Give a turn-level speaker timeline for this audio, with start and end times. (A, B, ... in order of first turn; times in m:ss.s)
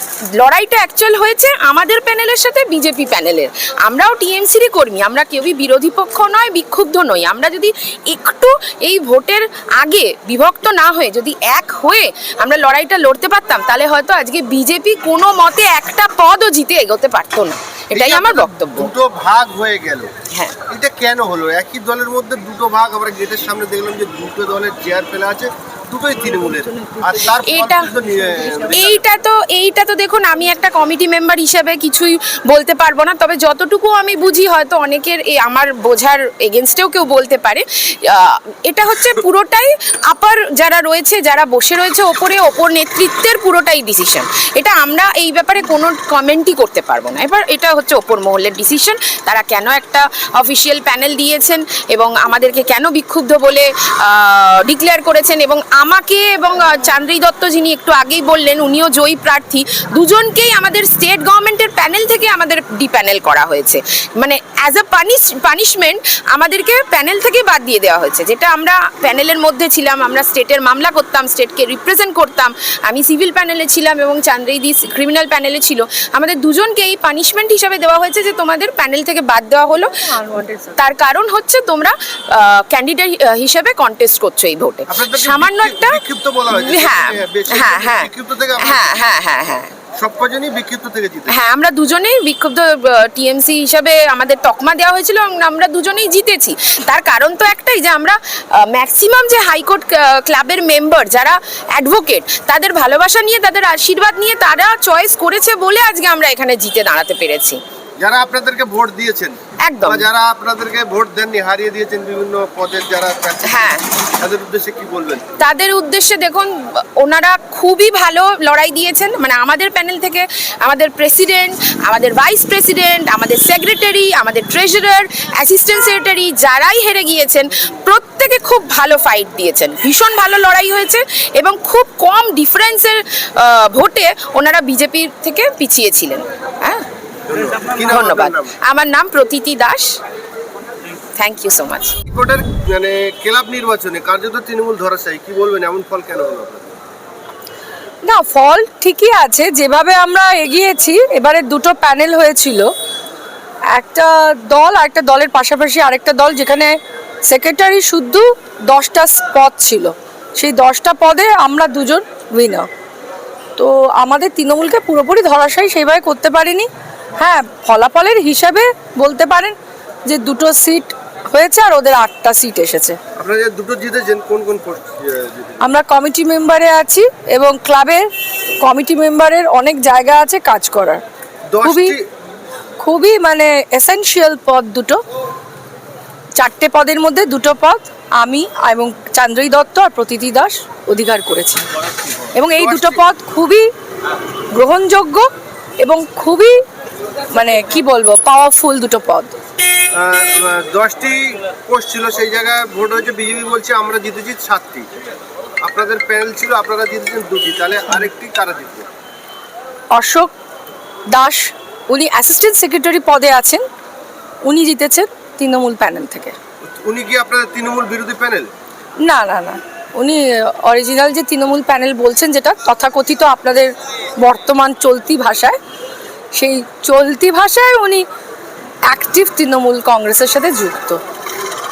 0:00.4-0:18.9 A
0:17.9-0:20.1 B
0:20.3-0:20.6 A
0:20.6-0:29.0 B
0:26.9-0:28.0 A
0:28.7-1:19.9 A
1:20.1-1:20.8 C
1:20.8-1:29.7 A
1:24.9-1:29.0 B
1:30.0-1:31.4 B
1:31.3-1:47.6 A
1:48.0-1:55.3 B
1:49.7-1:50.1 A
1:53.5-1:53.8 A
1:55.4-2:16.8 A
2:17.2-2:18.6 B
2:17.8-2:19.9 A
2:21.2-2:22.0 A
2:22.1-2:26.8 B
2:28.0-2:32.7 C
2:33.7-2:36.7 C
2:37.3-2:42.7 C
2:43.6-2:49.5 C
2:50.1-2:53.0 C
2:53.2-2:55.6 B
2:55.6-2:58.1 C
2:58.6-3:01.0 C
3:01.5-3:02.0 B
3:01.6-3:01.9 C
3:02.8-3:05.0 C
3:06.4-3:11.6 C
3:12.3-3:13.7 C
3:12.6-3:13.0 B
3:14.5-3:15.2 C
3:15.8-3:16.6 C
3:17.3-3:19.4 C
3:19.9-3:24.9 B
3:25.6-3:28.9 B
3:29.9-3:30.3 C
3:31.1-3:33.6 C
3:34.4-3:36.3 C
3:36.6-3:38.5 B
3:39.0-3:45.6 C
3:46.3-3:48.0 C
3:48.9-3:51.0 C